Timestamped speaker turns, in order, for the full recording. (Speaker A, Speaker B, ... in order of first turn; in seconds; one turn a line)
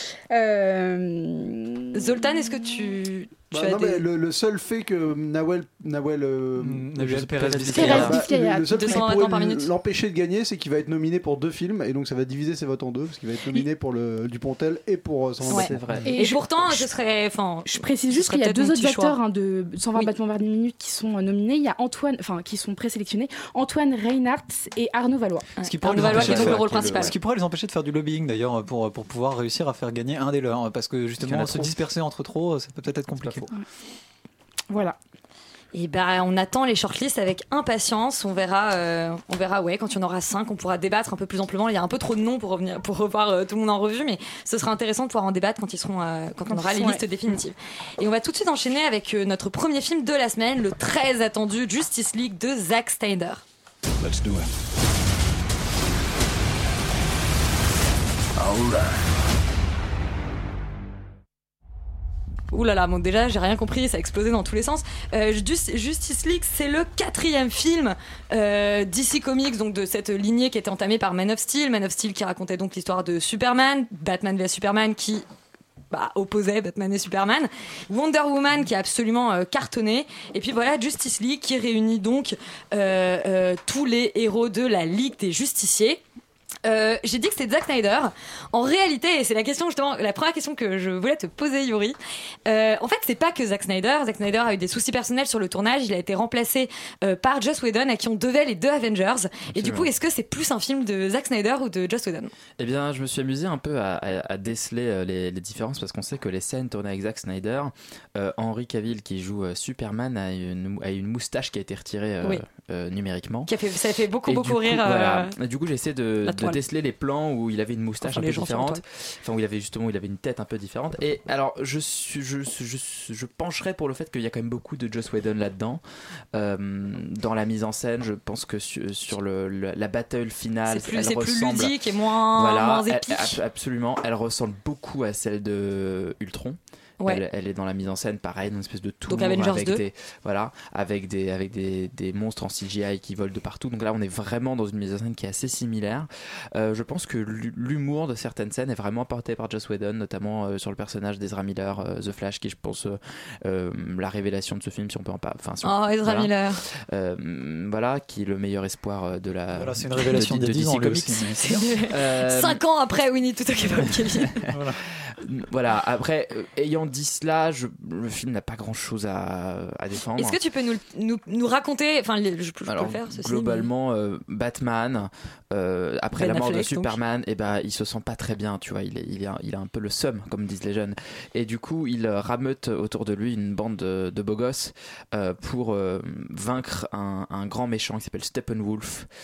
Speaker A: 0.3-2.3
Speaker B: 1.9-4.0
Speaker C: 3.5-15.7
Speaker D: 6.6-8.2
Speaker A: 7.7-9.4
Speaker B: 8.7-9.7
Speaker E: 15.5-16.1
Speaker B: 15.5-19.2
Speaker A: 16.0-16.9
Speaker A: 17.7-25.5
Speaker B: 25.6-27.1
Speaker D: 25.6-33.5
Speaker E: 26.0-27.1
Speaker E: 31.2-31.7
Speaker E: 33.2-33.5
Speaker A: 34.7-35.0
Speaker B: 35.7-53.4
Speaker A: 46.5-47.0
Speaker B: 62.5-75.2
Speaker B: 75.9-86.0
Speaker B: 86.7-102.3
Speaker E: 99.6-99.9
Speaker E: 102.6-113.5
Speaker B: 113.5-115.3
Speaker E: 114.3-125.8
Speaker B: 116.2-116.6
Speaker B: 118.0-118.8
Speaker E: 126.3-131.7
Speaker B: 130.7-133.4
Speaker E: 132.3-161.3
Speaker B: 139.1-139.8
Speaker B: 155.6-156.6
Speaker D: 159.5-161.7
Speaker B: 161.4-164.4
Speaker E: 161.9-162.6
Speaker D: 164.5-164.8
Speaker E: 165.0-170.4
Speaker B: 170.2-173.7
Speaker E: 172.7-189.1
Speaker B: 176.2-177.0